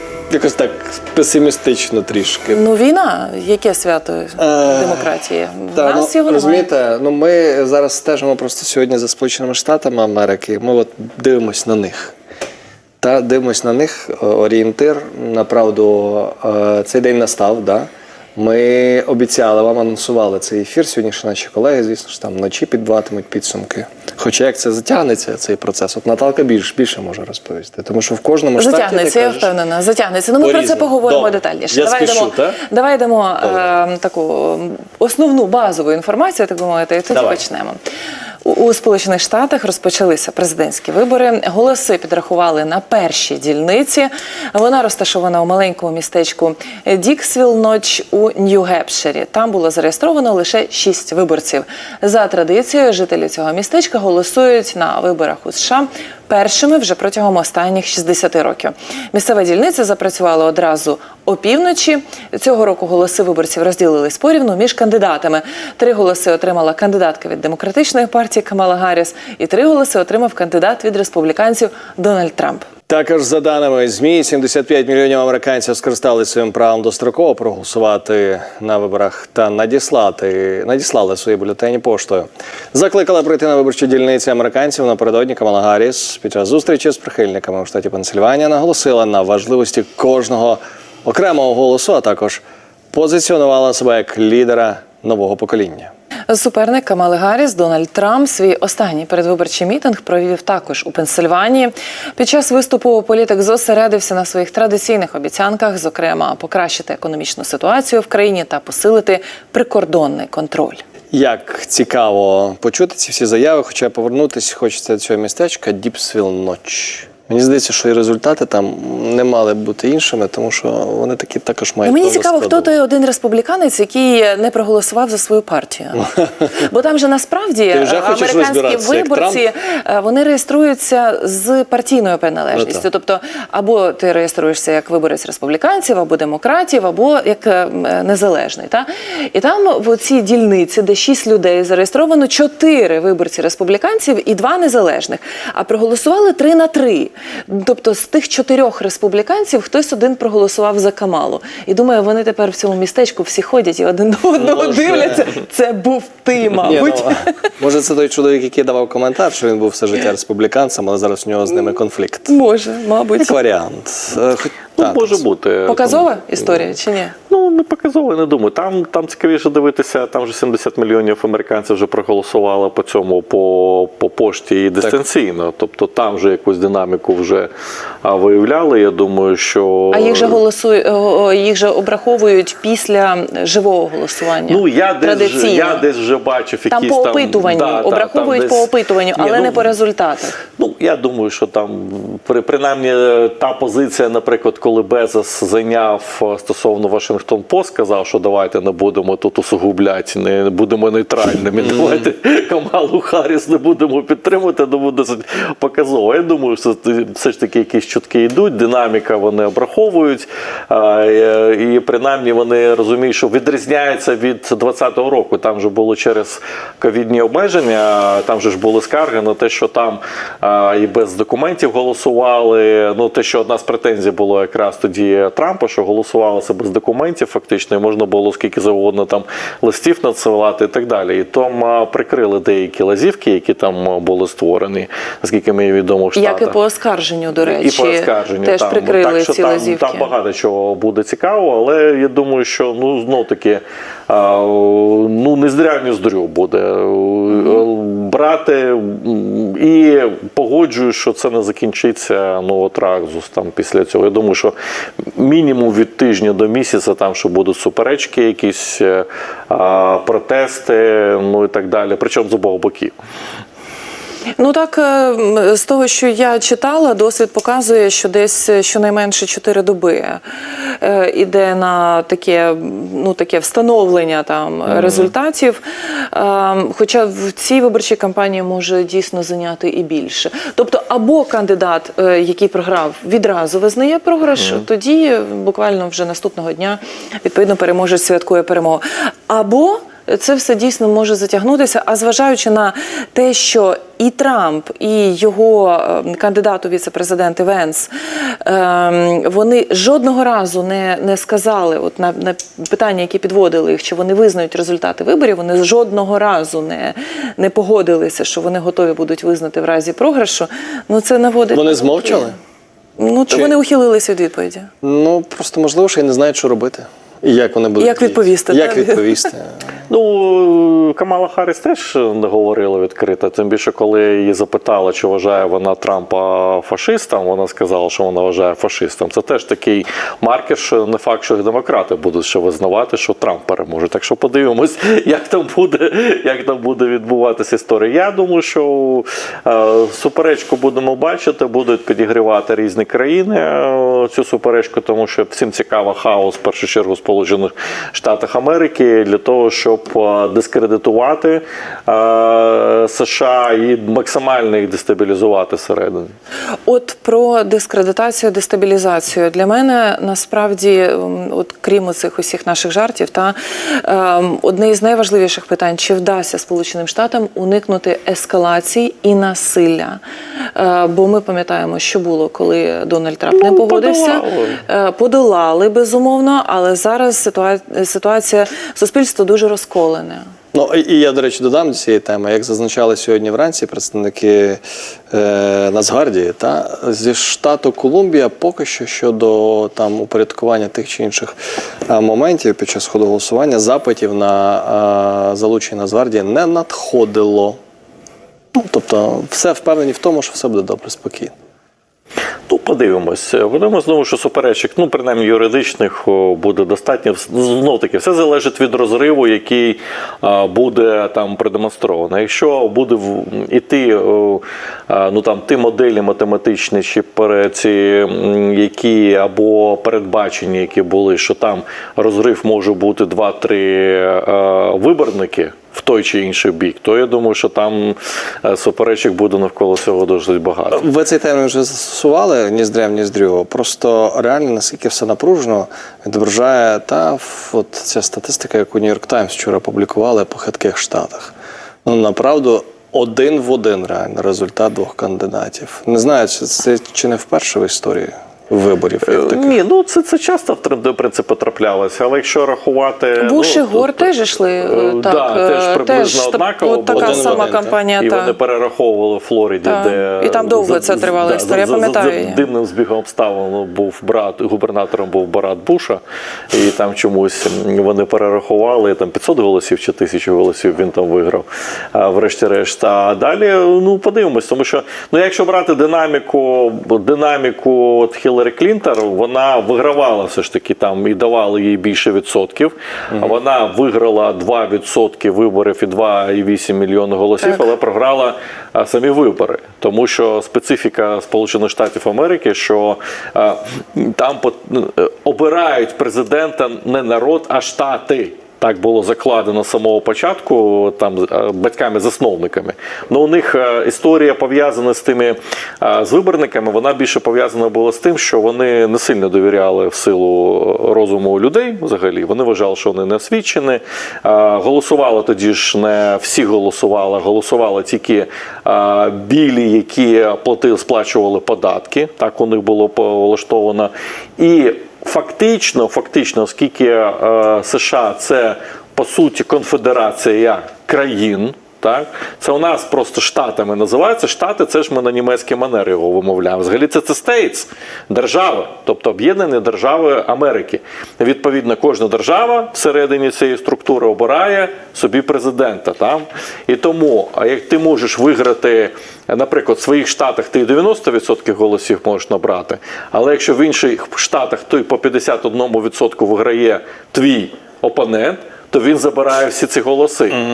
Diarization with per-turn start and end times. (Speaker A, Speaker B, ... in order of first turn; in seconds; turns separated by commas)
Speaker A: 0.3-2.6, Speaker B: 2.5-6.7, Speaker A: 4.4-5.1, Speaker A: 5.7-12.1, Speaker A: 13.0-29.5, Speaker B: 28.6-37.8, Speaker A: 30.4-32.6, Speaker A: 33.4-33.7, Speaker A: 37.1-37.4, Speaker B: 38.5-72.7, Speaker A: 72.9-95.9, Speaker B: 96.3-110.8, Speaker A: 111.1-122.8, Speaker B: 121.8-157.3, Speaker A: 127.7-129.5, Speaker A: 132.5-132.9, Speaker A: 154.4-155.3, Speaker A: 156.6-162.3, Speaker B: 162.3-163.4, Speaker A: 163.2-165.2, Speaker C: 164.8-166.6, Speaker B: 165.7-167.2, Speaker C: 167.3-177.5, Speaker C: 178.0-180.4, Speaker B: 179.9-185.9, Speaker C: 184.5-189.7, Speaker B: 186.7-190.4, Speaker C: 190.6-236.6, Speaker A: 201.6-201.9, Speaker B: 236.2-240.1, Speaker C: 237.4-254.5, Speaker C: 255.2-262.9, Speaker B: 264.4-312.3, Speaker C: 274.7-275.1, Speaker C: 284.4-284.6, Speaker A: 311.5-312.4, Speaker B: 313.0-314.7, Speaker A: 314.8-319.5, Speaker B: 317.8-319.3, Speaker C: 319.9-356.1, Speaker B: 356.7-370.0, Speaker B: 370.6-380.2, Speaker C: 373.3-374.6, Speaker A: 380.5-391.4, Speaker A: 391.9-397.6, Speaker A: 398.6-401.3, Speaker C: 402.5-430.8, Speaker A: 430.7-441.3, Speaker A: 441.9-449.6, Speaker C: 449.1-454.1, Speaker B: 453.2-458.4, Speaker C: 454.6-560.4, Speaker A: 457.0-457.8, Speaker B: 459.6-462.5